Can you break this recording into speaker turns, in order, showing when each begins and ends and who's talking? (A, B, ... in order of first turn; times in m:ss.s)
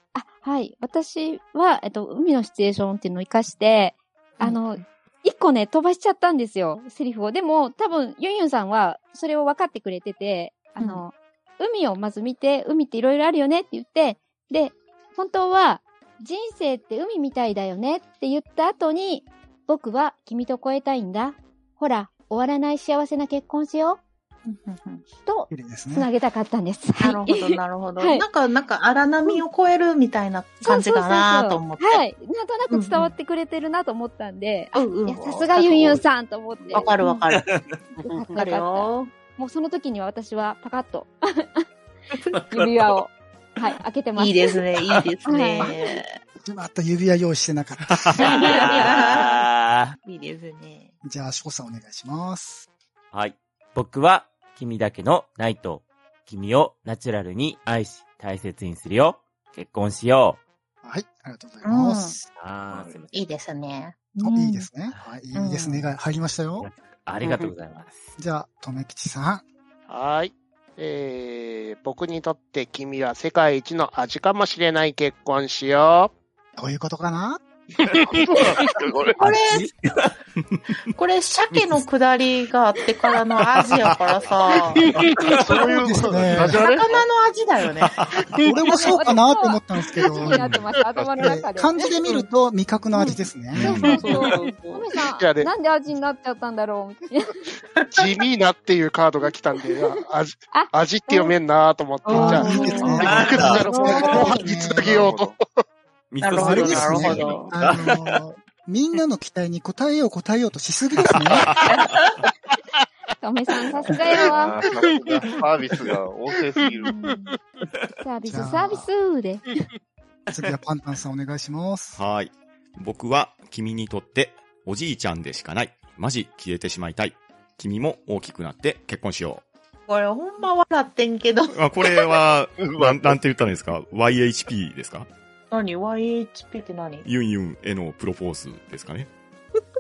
0:00.2-0:24.0 A
0:24.4-0:25.0 B
0:25.2-0:28.2 A
0:25.5-0:26.1 C
0:27.0-0:32.0 B
0:30.6-0:37.2 A
0:32.7-0:33.1 B
0:34.7-0:36.0 B
0:35.1-0:36.0 D
0:36.6-0:36.9 D
0:36.7-0:37.5 B
0:37.3-0:37.8 E
0:38.0-0:41.6 A
0:38.4-0:39.1 B
0:42.3-0:43.0 E
0:42.5-0:44.5 A
0:44.2-0:46.2 B
0:45.2-0:46.0 A
0:46.4-0:48.2 C
0:48.2-0:50.0 E
0:48.2-0:49.5 B
0:50.0-0:50.9 B
0:51.0-0:52.7 C
0:53.1-1:00.4 E
1:00.8-1:02.2 C
1:01.6-1:02.2 B
1:02.4-1:03.2 E
1:02.7-1:03.0 D
1:03.1-1:04.0 B
1:04.2-1:04.7 A
1:04.2-1:06.7 C
1:05.4-1:05.9 B
1:06.6-1:08.1 E
1:08.2-1:09.4 C
1:09.9-1:16.1 F
1:16.6-1:17.4 C
1:18.0-1:18.8 F
1:18.0-1:19.2 D
1:19.2-1:19.7 B
1:19.2-1:19.7 C
1:21.0-1:24.8 B
1:24.8-1:25.2 F
1:25.2-1:26.8 D
1:25.7-1:26.6 C
1:26.4-1:28.0 B
1:26.4-1:26.8 F
1:28.4-1:30.5 C
1:28.7-1:31.9 A
1:31.2-1:33.8 C
1:32.9-1:37.4 A
1:33.5-1:34.0 G
1:33.9-1:34.8 B
1:35.0-1:35.5 F
1:37.9-1:45.6 F
1:40.5-1:41.4 A
1:42.0-1:44.4 B
1:42.1-1:44.4 A
1:42.2-1:45.1 C
1:43.0-1:43.7 E
1:44.4-1:45.4 D
1:46.1-1:48.0 E
1:46.2-1:47.5 B
1:46.4-1:51.5 C
1:53.2-1:54.7 A
1:54.1-1:56.9 D
1:54.7-1:55.1 F
1:56.9-1:57.3 A
1:58.0-1:59.4 A
1:58.2-1:58.9 C
2:00.3-2:02.0 C
2:02.0-2:09.4 G
2:09.9-2:11.5 B
2:11.5-2:15.1 G
2:12.6-2:13.2 D
2:15.5-2:17.1 B
2:17.0-2:19.1 G